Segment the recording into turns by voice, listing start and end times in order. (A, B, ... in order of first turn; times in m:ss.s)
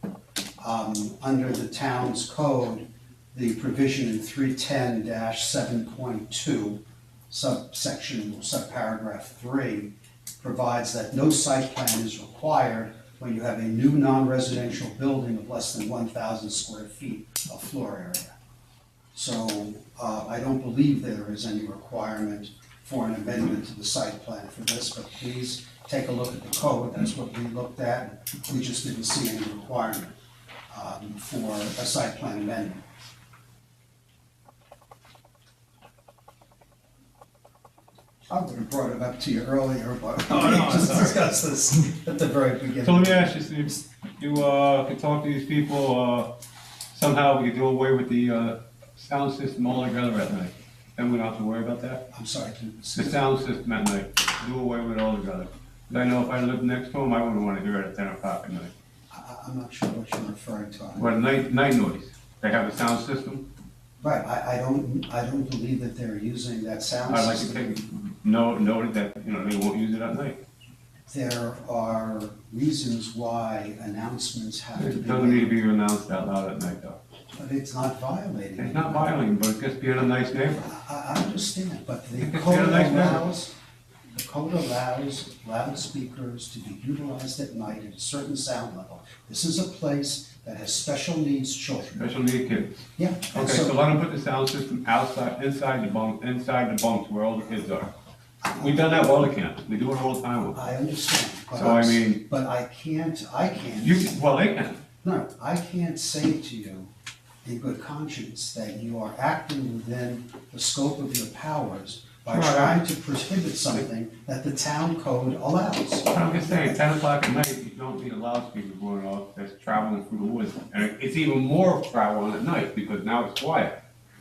0:00.6-0:18.3 A
0:19.1-0:30.2 A
0:30.7-0:32.8 A
0:38.3-0:43.4 A
0:40.5-0:41.1 B
0:42.8-0:46.3 B
0:46.9-0:52.0 B
0:52.1-0:53.2 A
0:53.0-0:58.7 B
0:59.1-1:01.1 A
1:01.0-1:03.4 B
1:04.0-1:07.7 A
1:07.1-1:10.4 B
1:11.1-1:15.5 A
1:14.8-1:17.0 B
1:17.3-1:19.1 A
1:18.6-1:20.6 B
1:20.6-1:23.5 A
1:22.2-1:23.2 B
1:24.1-1:32.1 A
1:32.0-1:37.9 B
1:33.0-1:33.7 A
1:38.4-1:39.2 A
1:38.6-1:40.6 B
1:40.5-1:44.1 A
1:41.5-1:42.2 B
1:43.8-1:44.8 B
1:45.0-1:46.9 A
1:47.4-1:56.7 A
1:52.3-1:52.8 B
1:56.1-2:03.7 B